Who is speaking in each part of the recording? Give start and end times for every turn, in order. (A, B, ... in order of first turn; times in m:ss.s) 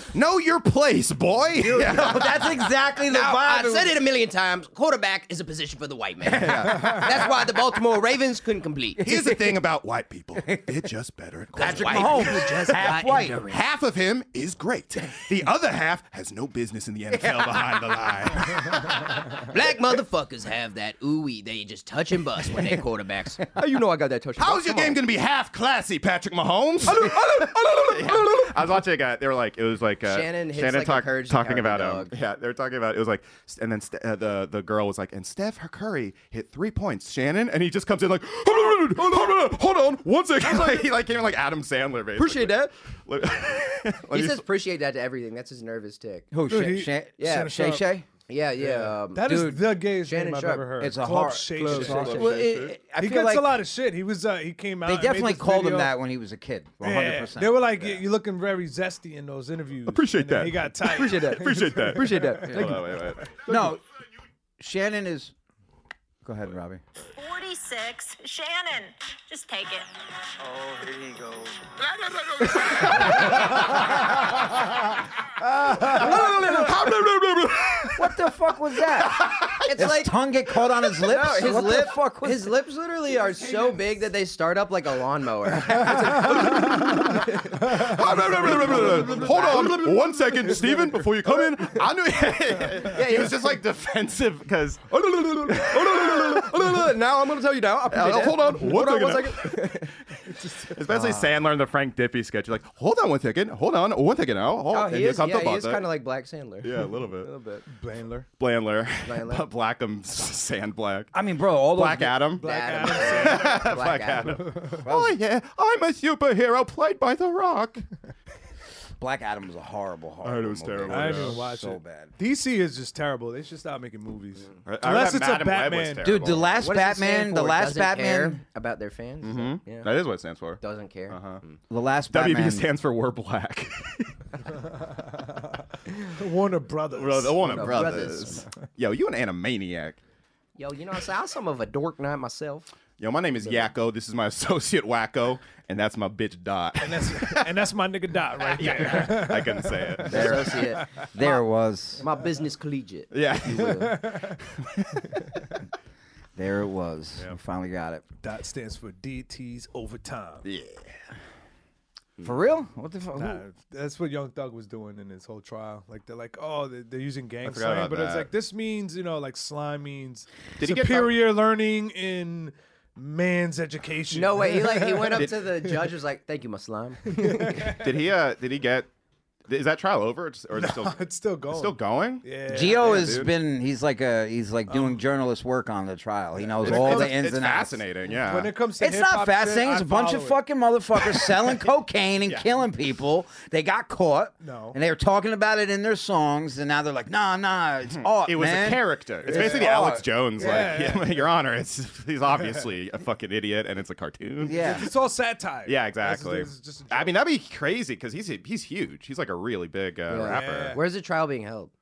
0:00.1-0:02.7 A
0:01.5-0:04.0 B
0:03.1-0:09.0 C
0:06.3-0:07.3 A
0:09.0-0:09.6 B
0:09.0-0:12.6 A
0:10.4-0:10.7 B
0:11.6-0:13.4 B
0:11.6-0:13.6 C
0:13.5-0:19.4 A
0:19.4-0:25.0 C
0:24.4-0:44.4 A
0:30.1-0:32.1 C
0:40.4-0:40.8 C
0:42.2-0:42.7 C
0:44.1-0:46.3 C
0:46.3-0:48.1 B
0:46.5-0:47.8 D
0:47.2-0:47.5 C
0:48.3-0:50.7 C
0:48.6-0:52.3 D
0:50.8-0:53.6 B
0:51.7-0:52.4 C
0:51.8-0:52.8 A
0:53.0-0:55.9 D
0:54.8-0:58.0 B
0:56.8-1:03.3 D
0:59.9-1:03.7 A
1:00.9-1:02.7 C
1:03.5-1:03.8 B
1:04.6-1:05.3 B
1:06.2-1:06.8 B
1:07.2-1:09.9 E
1:12.4-1:13.9 A
1:13.0-1:13.4 C
1:15.8-1:18.0 A
1:16.0-1:16.8 B
1:16.0-1:16.5 C
1:17.9-1:22.6 B
1:19.0-1:19.6 A
1:19.6-1:20.2 C
1:21.0-1:31.8 C
1:26.1-1:36.9 A
1:32.8-1:33.5 C
1:35.0-1:39.9 C
1:37.9-1:39.9 A
1:40.6-1:45.9 A
1:44.7-1:47.6 C
1:46.6-1:47.3 A
1:47.7-1:48.3 D
1:48.4-1:51.1 A
1:49.0-1:49.4 C
1:51.1-1:52.4 B
1:51.7-1:57.8 A
1:52.4-1:54.5 C
1:52.4-1:53.8 D
1:54.8-1:55.2 B
1:59.0-2:02.1 B
2:00.2-2:01.4 A
2:00.9-2:06.1 D
2:04.6-2:06.6 A
2:06.0-2:08.4 B
2:06.6-2:09.9 C
2:09.2-2:11.4 A
2:10.6-2:11.6 C
2:11.7-2:12.7 B
2:12.1-2:14.1 A
2:16.2-2:18.1 D
2:16.9-2:20.0 A
2:17.4-2:18.5 C
2:20.6-2:22.7 C
2:23.0-2:27.5 A
2:26.8-2:30.3 D
2:28.4-2:30.5 A
2:30.0-2:32.1 B
2:30.1-2:31.4 C
2:32.0-2:34.0 C
2:33.1-2:35.2 A
2:33.8-2:34.4 D
2:36.4-2:38.0 B
2:38.2-2:40.4 D
2:40.4-2:40.9 A
2:42.2-2:43.4 B
2:43.2-2:55.3 D
2:47.4-2:48.3 A
2:50.6-2:51.4 A
2:54.1-2:57.7 C
2:57.1-2:57.9 D
2:57.7-2:58.9 A
2:59.5-3:03.3 A
3:00.5-3:03.2 D
3:02.5-3:07.8 B
3:04.7-3:05.0 D
3:06.6-3:07.1 D
3:06.6-3:08.6 A
3:08.3-3:10.4 D
3:08.8-3:20.8 B
3:14.4-3:14.8 D
3:17.9-3:24.9 A
3:19.3-3:21.1 D
3:24.4-3:24.9 B
3:24.6-3:27.2 D
3:25.6-3:30.8 A
3:30.1-3:31.7 C
3:30.2-3:30.8 D